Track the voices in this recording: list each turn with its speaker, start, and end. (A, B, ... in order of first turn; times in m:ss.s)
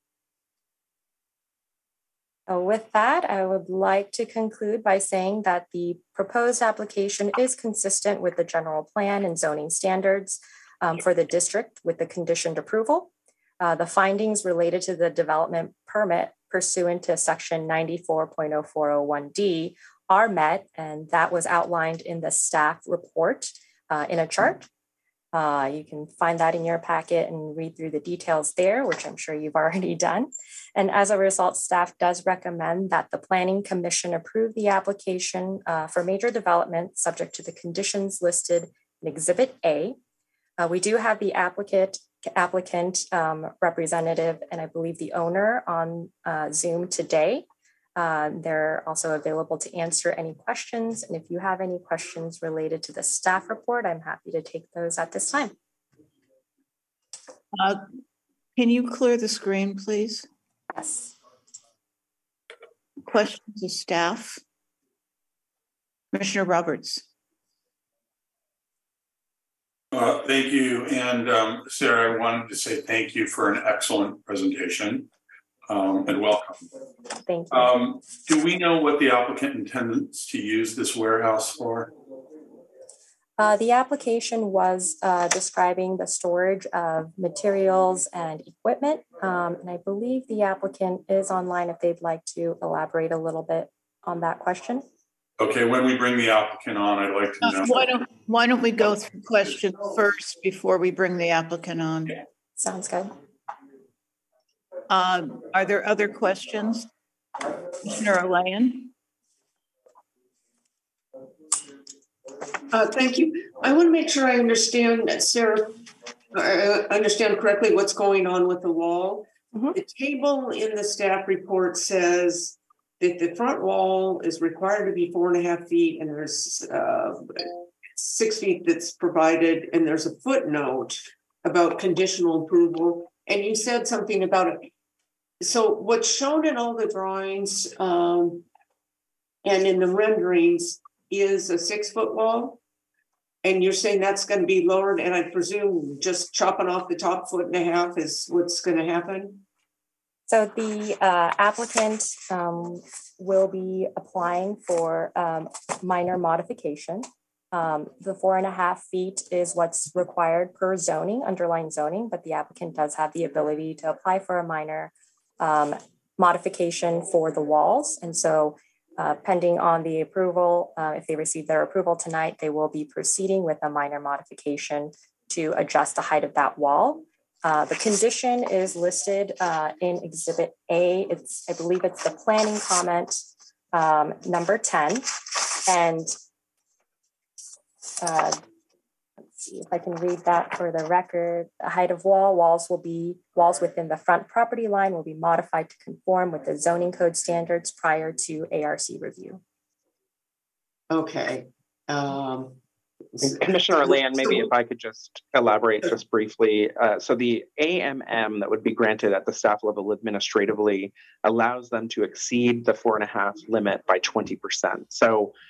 0:02.5-0:24.7 A
0:25.3-0:40.0 A
0:40.6-0:47.4 A
0:48.0-0:55.5 A
0:57.6-0:57.8 B
0:58.6-1:00.2 B
1:00.7-1:01.1 A
1:03.0-1:04.4 B
1:06.1-1:07.0 B
1:09.9-1:15.1 C
1:15.7-1:16.6 C
1:17.3-1:17.7 A
1:17.5-1:21.9 C
1:23.4-1:34.8 A
1:35.4-1:37.9 C
1:37.4-1:42.2 B
1:42.6-1:43.1 A
1:44.9-1:46.9 B
1:47.8-1:48.9 B
1:52.7-1:55.8 D
1:56.3-2:14.7 D
2:15.4-2:18.4 D
2:19.4-2:22.6 D
2:23.4-2:29.4 D
2:30.3-3:06.1 A
3:08.0-3:08.4 A
3:09.3-3:19.4 A
3:20.9-3:22.6 D
3:23.2-3:24.5 D
3:23.2-3:35.3 E